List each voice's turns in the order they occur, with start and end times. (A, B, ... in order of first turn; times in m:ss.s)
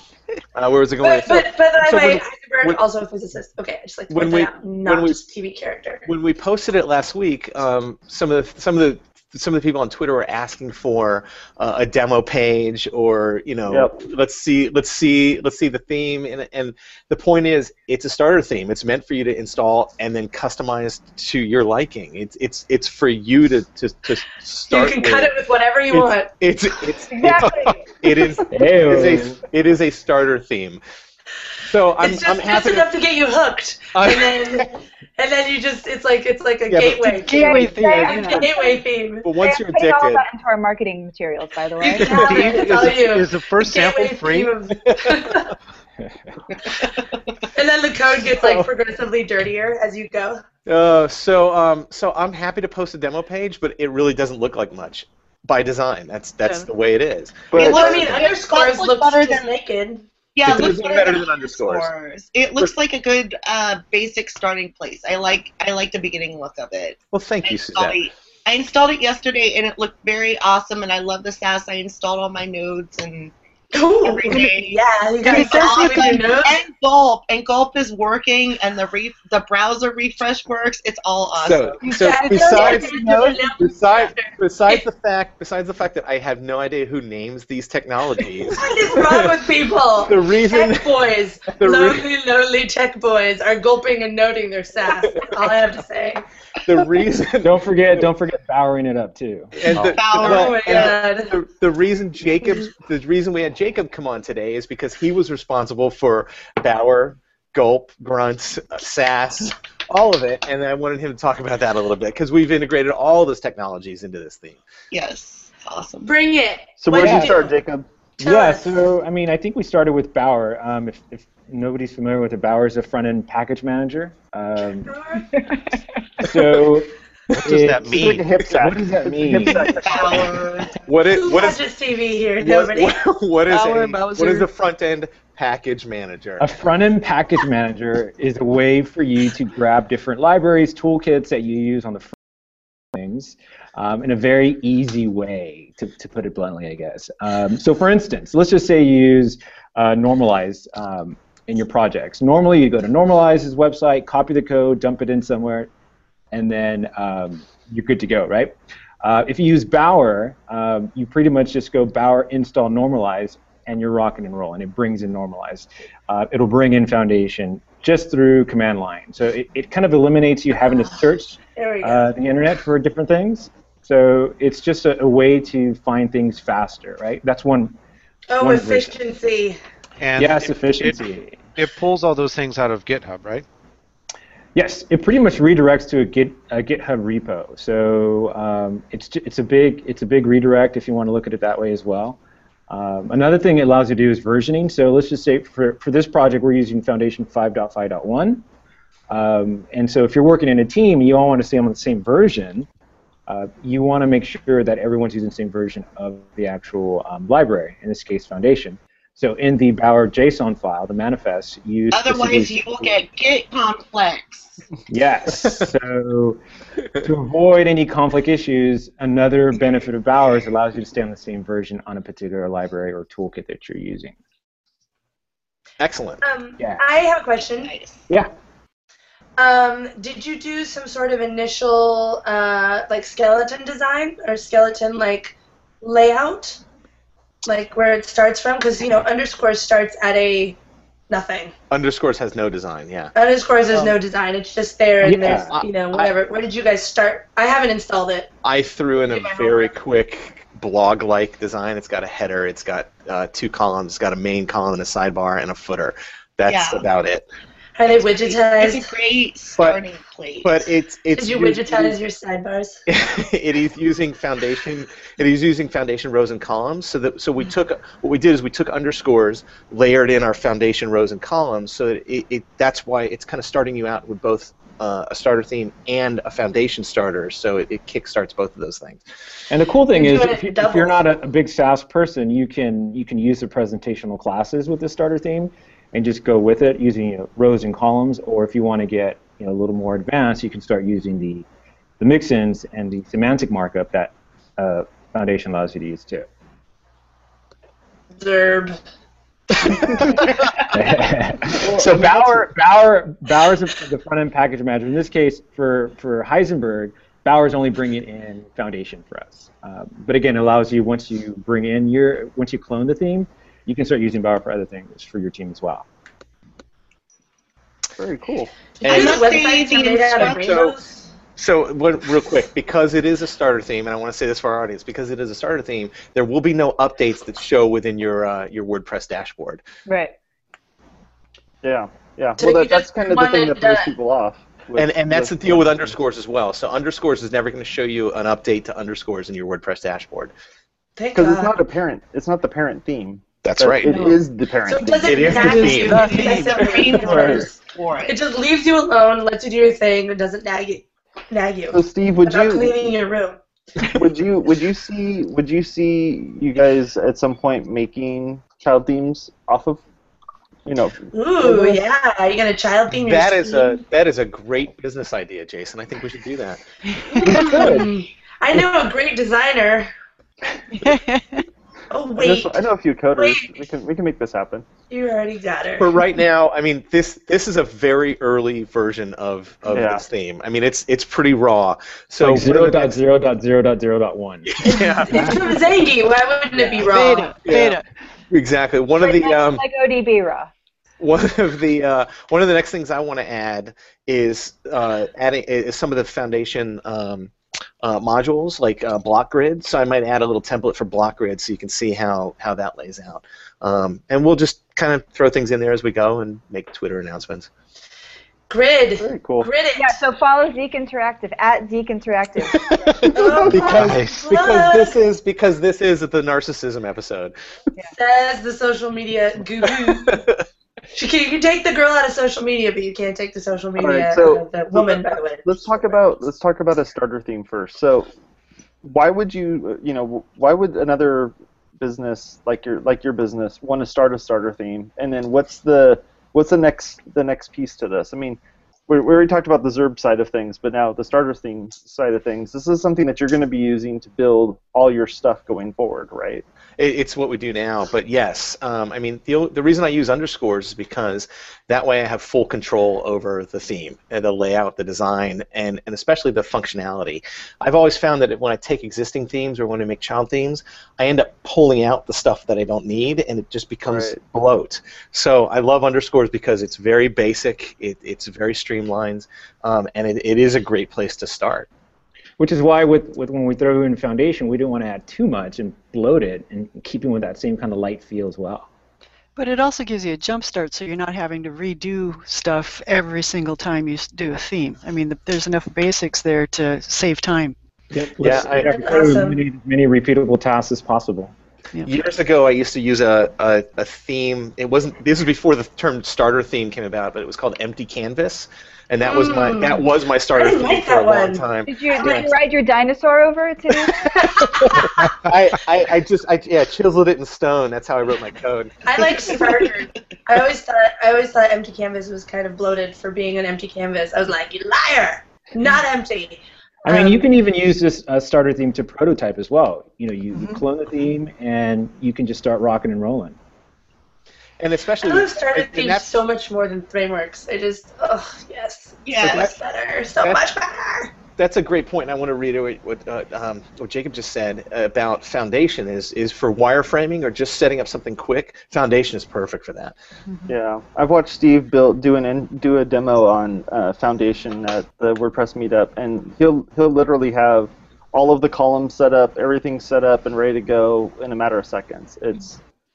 0:00.5-0:02.8 A
0:01.0-0:06.1 B
0:04.1-0:05.2 A
0:06.1-0:25.3 A
0:13.7-0:14.0 C
0:24.7-0:26.4 B
0:25.9-0:30.8 A
0:27.1-0:28.7 D
0:28.5-0:29.4 E
0:31.7-0:32.9 A
0:32.0-0:39.3 B
0:34.0-0:34.7 A
0:36.7-0:37.5 A
0:37.1-0:38.5 F
0:37.4-0:38.8 D
0:38.1-0:38.4 A
0:39.2-0:40.2 A
0:39.4-0:42.6 D
0:41.8-0:45.5 B
0:42.1-0:44.6 G
0:47.6-0:50.4 B
0:48.3-0:48.7 A
0:50.7-0:58.3 A
0:56.4-0:56.7 F
0:57.5-0:58.2 C
0:57.5-0:59.4 H
0:57.6-1:00.1 B
1:00.3-1:21.8 H
1:00.4-1:01.9 A
1:07.1-1:08.0 A
1:13.7-1:16.6 B
1:15.2-1:16.2 F
1:21.4-1:29.5 A
1:21.8-1:24.8 B
1:28.5-1:36.2 B
1:30.0-1:32.0 A
1:35.1-1:35.5 A
1:36.6-1:37.6 A
1:37.4-1:39.6 E
1:39.6-1:54.6 A
1:39.7-1:40.9 H
1:40.0-1:41.4 B
1:54.9-1:56.1 H
1:56.0-1:57.6 B
1:56.8-1:57.9 C
1:57.0-1:57.3 E
1:58.2-1:58.8 B
1:58.2-2:04.9 E
2:04.9-2:05.5 B
2:06.2-2:09.8 E
2:07.3-2:08.3 G
2:07.8-2:10.4 C
2:09.8-2:10.8 H
2:09.9-2:10.2 A
2:10.8-2:11.6 A
2:11.0-2:13.0 B
2:12.4-2:16.5 A
2:13.5-2:14.5 F
2:16.4-2:22.1 E
2:22.9-2:35.7 E
2:36.3-2:57.8 E
2:50.6-2:51.0 B
2:51.6-2:52.1 B
2:58.3-2:59.6 B
2:58.4-2:59.0 E
3:00.0-3:01.0 G
3:00.2-3:01.5 E
3:01.6-3:03.4 G
3:04.6-3:12.2 E
3:12.7-3:18.4 E
3:19.1-3:22.7 E
3:23.3-3:33.0 E
3:31.9-3:34.6 H
3:34.9-3:36.4 E
3:37.0-3:44.2 E
3:45.8-3:46.2 A
3:46.2-3:47.7 B
3:47.5-3:48.0 H
3:49.4-3:56.6 B
3:57.4-4:00.6 B
4:01.1-4:01.5 B
4:01.7-4:03.1 A
4:03.2-4:08.3 B
4:03.7-4:04.0 A
4:05.0-4:05.5 E
4:05.1-4:06.1 A
4:08.4-4:17.3 A
4:09.1-4:09.7 B
4:16.4-4:16.9 H
4:17.8-4:18.9 B
4:17.9-4:20.7 H
4:20.4-4:22.0 A
4:21.1-4:22.8 B
4:22.9-4:39.0 A
4:39.5-4:51.5 E
4:39.9-4:41.0 B
4:52.0-4:56.3 E
4:58.1-4:58.8 B
4:59.7-5:00.2 B
5:00.7-5:15.9 E
5:01.5-5:02.5 C
5:18.0-5:18.5 C
5:18.8-5:20.9 B
5:18.8-5:19.4 A
5:18.9-5:20.7 H
5:20.2-5:20.8 A
5:21.4-5:29.6 A
5:29.9-5:30.1 D
5:31.6-5:36.0 C
5:32.4-5:33.9 B
5:34.8-5:40.3 A
5:41.0-5:41.6 B
5:41.1-5:45.4 C
5:43.4-5:44.2 A
5:43.9-5:53.4 B
5:45.0-5:46.8 A
5:45.4-5:46.5 F
5:45.9-5:48.2 H
5:51.7-5:52.9 C
5:53.9-5:59.8 C
6:00.7-6:01.8 C
6:01.1-6:03.8 B
6:02.9-6:06.6 A
6:07.2-6:07.8 A
6:07.2-6:09.9 B
6:07.5-6:07.8 E
6:10.7-6:11.4 F
6:11.9-6:12.6 B
6:12.2-6:14.7 C
6:13.2-6:13.5 B
6:14.9-6:16.0 B
6:15.8-6:23.0 A
6:19.7-6:20.0 C
6:22.2-6:24.5 E
6:24.5-6:25.6 A
6:24.6-6:27.4 B
6:26.9-6:27.8 F
6:27.4-6:27.8 A
6:28.3-6:29.6 A
6:29.0-6:30.5 D
6:31.0-6:47.5 A
6:48.5-6:50.0 B
6:49.0-6:49.5 C
6:49.8-6:52.6 D
6:52.5-6:57.3 A
6:53.1-6:55.0 B
6:53.6-6:54.2 G
6:57.9-7:00.2 B
6:59.6-7:00.4 A
7:00.9-7:05.8 B
7:03.8-7:08.1 C
7:08.8-7:26.4 C
7:26.8-7:51.7 A
7:43.8-7:44.2 C
7:52.4-7:58.7 E
7:59.4-8:07.6 F
8:07.9-8:11.3 E
8:08.2-8:09.1 A
8:08.5-8:09.4 B
8:11.8-8:22.3 A
8:19.0-8:22.3 B
8:21.7-8:24.5 D
8:24.1-8:25.1 B
8:24.4-8:29.5 A
8:28.8-8:37.2 B
8:36.8-8:43.4 E
8:40.3-8:40.6 F
8:44.6-8:46.2 A
8:45.0-8:51.1 B
8:49.0-8:49.5 H
8:49.2-8:49.5 A
8:51.4-9:00.0 A
9:00.3-9:00.5 F
9:00.5-9:12.6 C